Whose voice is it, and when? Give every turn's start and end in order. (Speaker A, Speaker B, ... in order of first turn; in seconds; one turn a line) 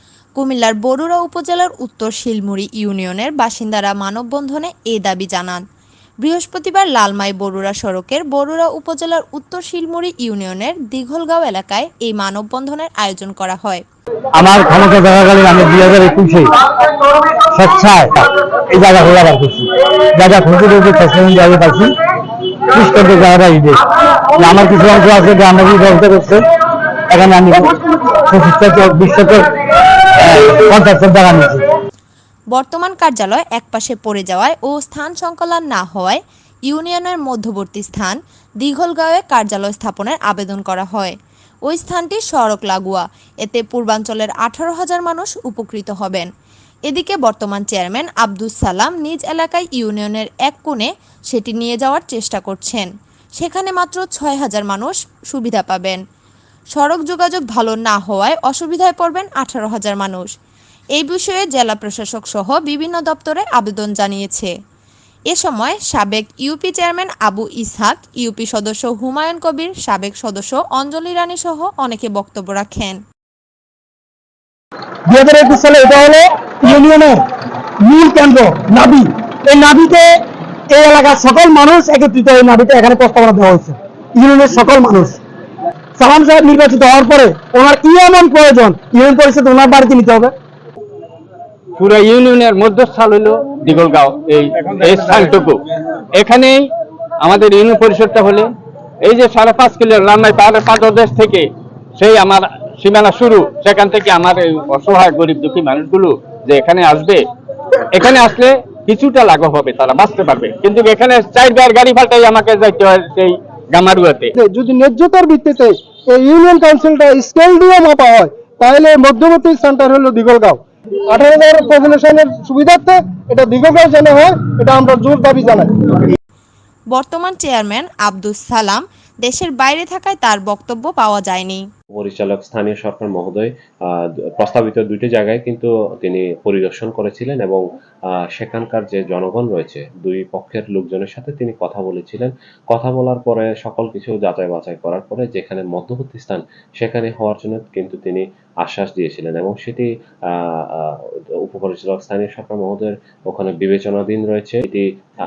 Speaker A: 0.4-5.6
Speaker A: 6.2-13.8
Speaker B: 14.3-16.5
Speaker B: 17.4-21.9
Speaker B: 22.7-23.8
Speaker B: 24.4-26.5
Speaker B: 27.1-27.8
Speaker B: 28.3-29.5
Speaker B: 30.2-31.6
Speaker A: 32.5-41.1
Speaker A: 41.7-46.3
Speaker A: 46.9-56.0
Speaker A: 56.7-60.3
Speaker A: 61.0-64.5
Speaker A: 65.3-73.0
Speaker B: 75.1-77.2
Speaker B: 77.8-80.1
Speaker B: 80.7-85.2
Speaker B: 86.0-90.3
Speaker C: 91.8-95.6
Speaker C: 96.2-96.7
Speaker C: 97.2-98.5
Speaker C: 99.0-107.3
Speaker C: 107.9-114.3
Speaker D: 114.3-126.1
Speaker A: 126.9-131.6
Speaker E: 131.9-137.6
Speaker E: 138.3-154.8